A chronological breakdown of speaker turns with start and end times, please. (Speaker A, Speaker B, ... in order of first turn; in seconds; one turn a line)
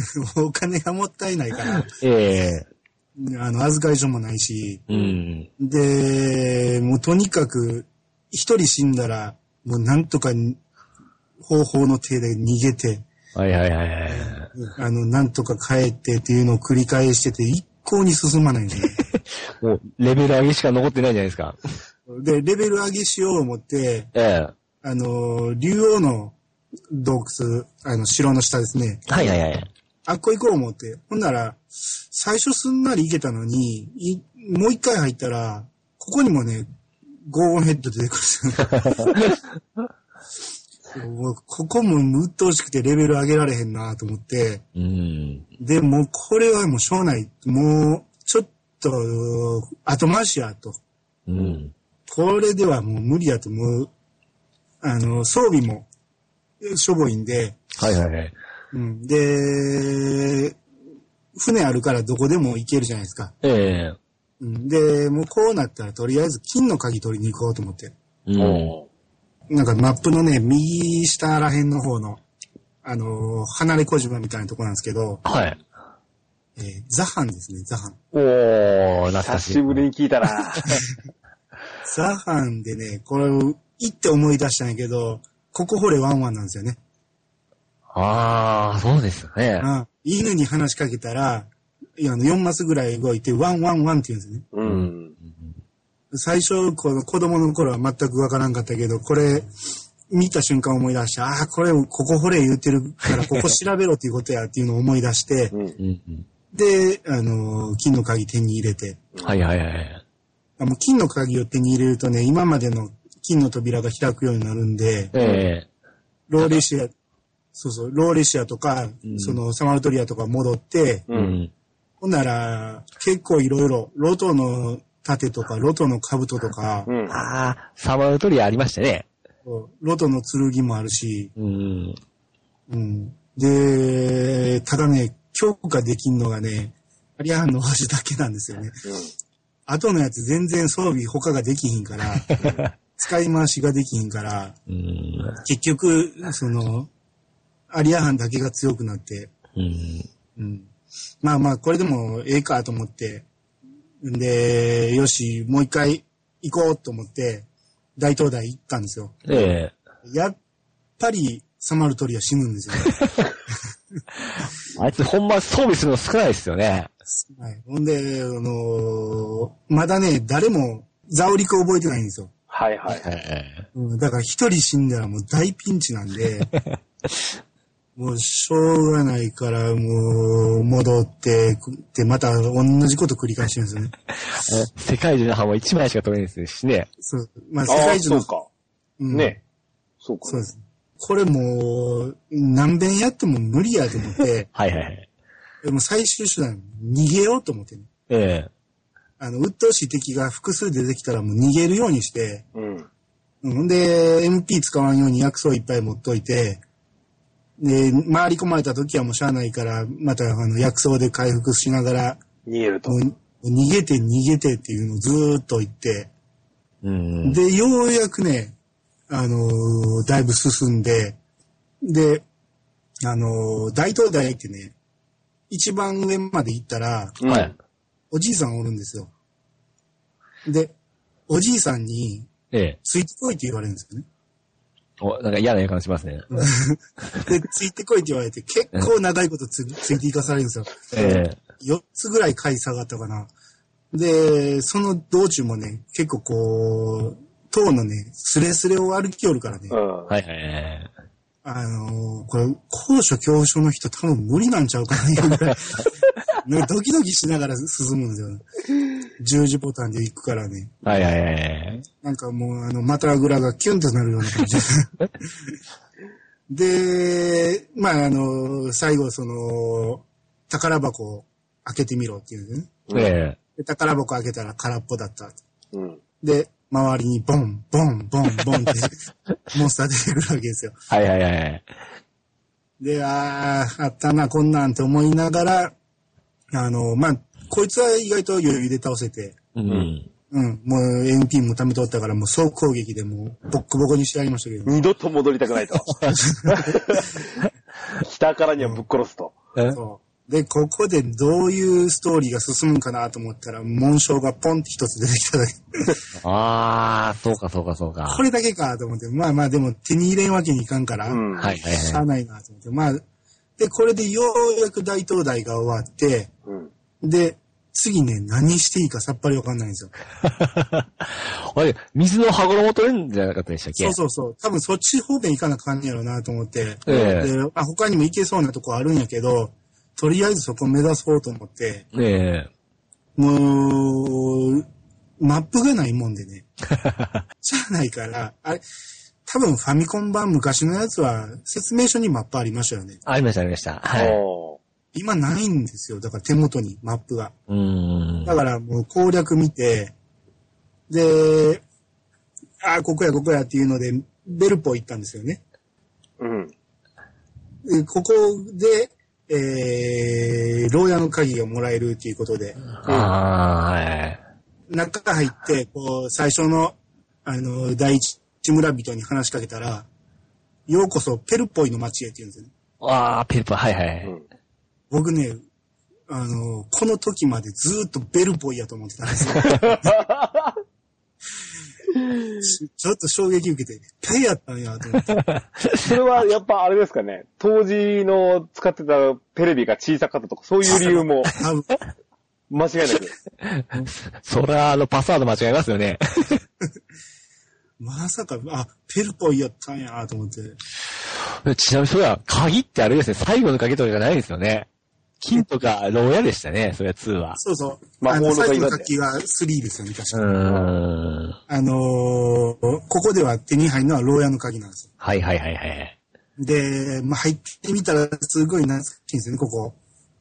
Speaker A: 0.1-1.9
Speaker B: 2.0-2.7
Speaker A: 3.2-4.8
Speaker B: 4.9-5.5
Speaker C: 4.9-5.2
Speaker A: 5.6-10.6
Speaker A: 11.4-13.0
Speaker B: 13.3-14.5
Speaker A: 14.1-19.0
Speaker B: 19.1-21.6
Speaker A: 22.1-24.1
Speaker B: 24.1-24.5
Speaker A: 24.8-26.4
Speaker A: 26.9-29.4
Speaker B: 29.1-29.7
Speaker A: 30.1-36.7
Speaker A: 37.3-39.1
Speaker A: 40.9-44.6
Speaker B: 44.8-45.5
Speaker A: 45.6-50.8
Speaker B: 51.3-51.7
Speaker A: 52.1-53.9
Speaker A: 54.8-55.9
Speaker A: 56.6-57.6
Speaker B: 57.8-58.4
Speaker A: 58.7-60.6
Speaker A: 61.4-63.4
Speaker B: 63.4-64.0
Speaker A: 64.4-67.9
Speaker B: 68.3-68.8
Speaker C: 68.4-68.9
Speaker A: 69.5-72.2
Speaker A: 72.8-75.2
Speaker B: 75.2-75.6
Speaker A: 76.6-78.0
Speaker B: 78.1-79.8
Speaker C: 79.2-80.6
Speaker A: 81.8-86.8
Speaker B: 87.9-89.7
Speaker A: 89.6-94.5
Speaker C: 94.5-95.1
Speaker B: 94.6-95.5
Speaker A: 96.1-99.5
Speaker A: 100.1-105.5
Speaker B: 105.8-106.3
Speaker A: 106.5-109.0
Speaker B: 109.2-110.0
Speaker A: 110.6-115.1
Speaker B: 115.1-115.7
Speaker C: 115.2-115.4
Speaker A: 116.3-116.9
Speaker A: 117.5-121.1
Speaker B: 119.0-119.4
Speaker C: 121.1-121.4
Speaker B: 121.1-121.5
Speaker A: 122.0-126.9
Speaker C: 126.9-127.2
Speaker B: 127.1-129.1
Speaker A: 129.4-131.3
Speaker B: 131.4-132.0
Speaker A: 132.7-138.8
Speaker C: 138.8-139.1
Speaker A: 139.7-142.3
Speaker B: 142.3-142.6
Speaker A: 142.9-144.6
Speaker B: 144.7-145.4
Speaker A: 145.4-146.9
Speaker A: 147.7-149.3
Speaker B: 149.6-150.1
Speaker A: 150.4-150.7
Speaker A: 151.2-153.3
Speaker A: 154.0-159.3
Speaker B: 159.3-159.8
Speaker A: 160.0-160.4
Speaker A: 161.0-163.0
Speaker B: 164.8-166.9
Speaker A: 167.1-172.3
Speaker C: 172.5-173.1
Speaker B: 172.9-173.7
Speaker A: 173.7-176.5
Speaker A: 178.0-184.7
Speaker B: 184.4-186.9
Speaker A: 187.0-188.3
Speaker C: 187.7-188.5
Speaker A: 189.0-189.4
Speaker C: 189.1-189.4
Speaker C: 190.0-190.5
Speaker A: 190.3-194.5
Speaker B: 194.6-195.1
Speaker A: 195.6-197.9
Speaker B: 198.1-198.5
Speaker A: 199.2-202.5
Speaker C: 202.6-202.9
Speaker A: 203.4-206.6
Speaker A: 207.6-212.2
Speaker C: 212.5-213.0
Speaker A: 212.9-216.1
Speaker B: 216.8-217.4
Speaker A: 217.2-218.6
Speaker A: 219.1-221.2
Speaker A: 221.8-222.3
Speaker A: 223.0-224.8
Speaker A: 225.5-227.2
Speaker C: 227.2-227.5
Speaker B: 227.3-227.5
Speaker A: 228.1-229.1
Speaker A: 230.5-230.7
Speaker A: 231.3-232.3
Speaker B: 232.5-232.8
Speaker A: 232.8-234.1
Speaker B: 235.0-236.3
Speaker A: 236.3-243.3
Speaker B: 240.9-241.4
Speaker A: 243.9-249.8
Speaker C: 249.7-250.2
Speaker B: 250.1-250.9
Speaker A: 251.4-255.9
Speaker A: 256.4-258.4
Speaker A: 259.2-260.9
Speaker B: 260.8-261.8
Speaker A: 261.9-265.5
Speaker A: 266.5-272.8
Speaker C: 272.9-273.1
Speaker B: 272.9-273.4
Speaker A: 273.6-275.4
Speaker C: 275.7-276.0
Speaker A: 276.2-278.9
Speaker A: 279.5-280.8
Speaker B: 280.9-281.6
Speaker A: 282.8-285.7
Speaker A: 286.5-289.4
Speaker B: 289.6-290.1
Speaker A: 290.3-294.8
Speaker C: 294.7-295.9
Speaker A: 296.1-296.6
Speaker C: 296.5-297.1
Speaker C: 298.0-299.4
Speaker A: 299.7-306.0
Speaker B: 306.2-308.2
Speaker A: 308.1-313.0
Speaker C: 311.1-311.6
Speaker B: 311.4-312.0
Speaker A: 313.6-316.3
Speaker A: 317.0-319.9
Speaker B: 320.2-324.0
Speaker A: 323.8-331.9
Speaker B: 326.9-327.3
Speaker C: 326.9-327.1
Speaker B: 331.9-332.5
Speaker A: 333.2-334.7
Speaker A: 335.2-336.5
Speaker B: 336.8-337.2
Speaker A: 337.4-338.6
Speaker A: 339.2-343.0
Speaker B: 343.1-344.2
Speaker C: 343.9-344.6
Speaker A: 344.9-347.3
Speaker B: 347.5-348.4
Speaker A: 348.2-349.9
Speaker A: 350.9-351.6
Speaker A: 352.6-355.4
Speaker C: 356.2-356.5
Speaker A: 357.7-362.6
Speaker B: 362.8-364.2
Speaker C: 362.9-363.1
Speaker A: 364.7-369.9
Speaker A: 370.7-372.5
Speaker B: 372.8-374.1
Speaker A: 374.9-375.4
Speaker A: 376.1-379.7
Speaker C: 379.4-380.6
Speaker A: 382.4-385.2
Speaker B: 385.1-385.9
Speaker C: 385.8-391.3
Speaker A: 390.7-391.7
Speaker B: 390.8-391.3
Speaker C: 392.5-393.1
Speaker B: 393.4-396.4
Speaker A: 397.8-400.6
Speaker B: 401.4-404.7
Speaker B: 405.2-407.4
Speaker A: 407.4-410.4
Speaker C: 408.0-408.9
Speaker B: 410.1-411.4
Speaker C: 410.5-410.8
Speaker A: 411.5-414.9
Speaker B: 415.0-416.0
Speaker A: 416.4-419.8